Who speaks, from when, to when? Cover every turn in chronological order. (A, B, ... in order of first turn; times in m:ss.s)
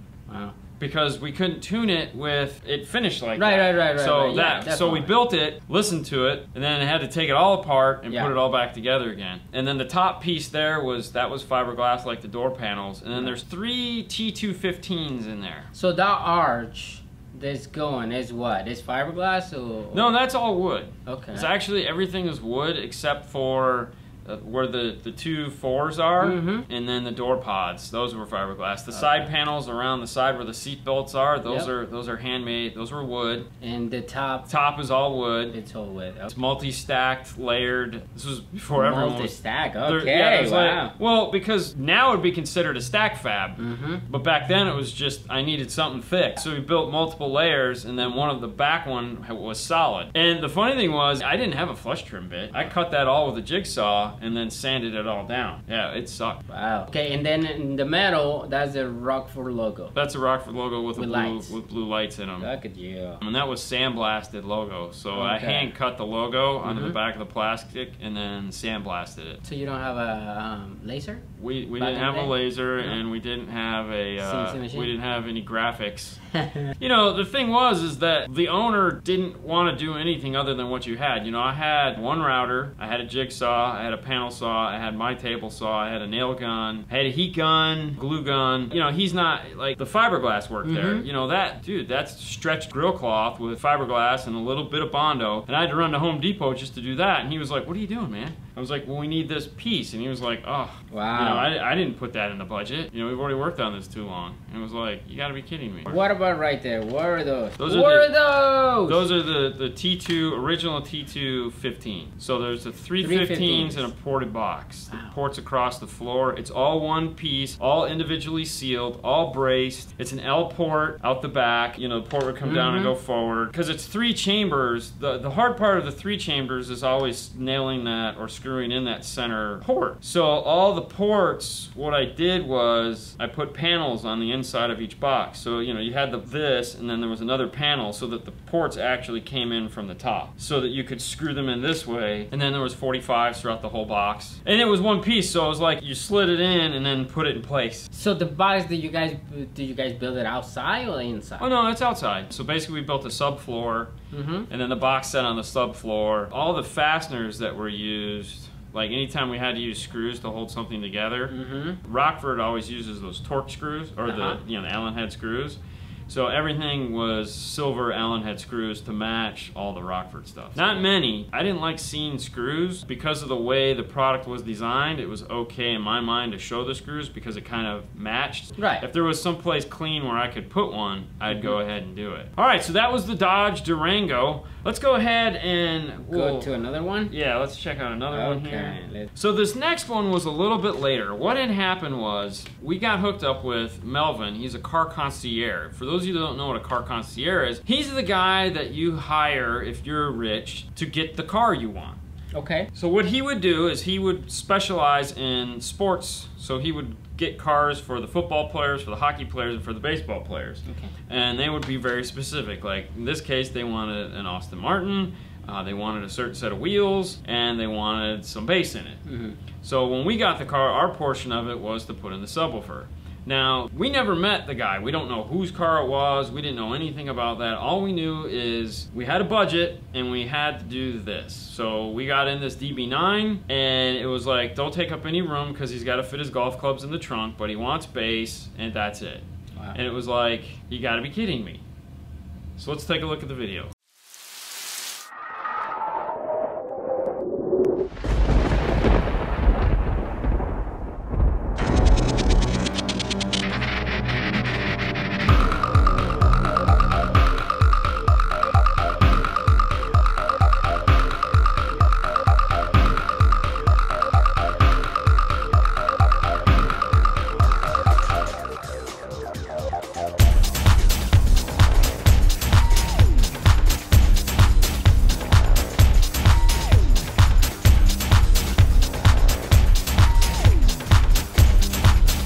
0:00.3-0:00.6 A
0:00.8-0:15.7 B
0:03.4-0:05.1 A
0:15.7-0:20.1 A
0:19.9-0:33.5 B
0:21.0-0:21.5 A
0:26.2-0:26.7 A
0:28.9-0:29.3 A
0:31.4-0:31.7 A
0:33.6-0:34.5 A
0:34.4-0:35.5 B
0:35.5-0:36.3 A
0:36.3-0:39.3 B
0:38.7-0:40.9 A
0:39.8-0:56.4 B
0:43.6-0:44.0 A
0:56.5-0:59.9 A
0:59.9-1:02.5 B
1:00.9-1:01.6 A
1:02.4-1:03.2 A
1:03.2-1:09.4 B
1:05.1-1:05.7 A
1:06.6-1:07.0 A
1:09.4-1:11.2 A
1:11.4-1:16.2 B
1:11.8-1:13.0 A
1:14.2-1:14.9 A
1:16.3-1:16.7 A
1:16.8-1:46.0 B
1:30.6-1:31.1 A
1:40.9-1:41.5 A
1:45.8-1:49.0 A
1:47.6-1:48.1 B
1:48.8-2:27.9 B
1:53.0-1:53.9 A
1:54.9-1:55.1 A
2:02.4-2:02.9 A
2:27.9-2:31.4 A
2:31.4-2:33.9 B
2:34.1-2:34.5 A
2:34.5-3:06.5 B
2:41.3-2:41.8 A
2:44.1-2:44.4 A
2:58.6-2:58.8 A
3:01.3-3:01.6 A
3:06.1-3:07.1 A
3:07.1-3:22.0 B
3:08.1-3:09.1 A
3:22.3-3:22.7 A
3:22.7-3:39.0 B
3:30.6-3:30.9 A
3:39.0-3:39.4 A
3:39.6-4:01.6 B
4:02.6-4:03.7 B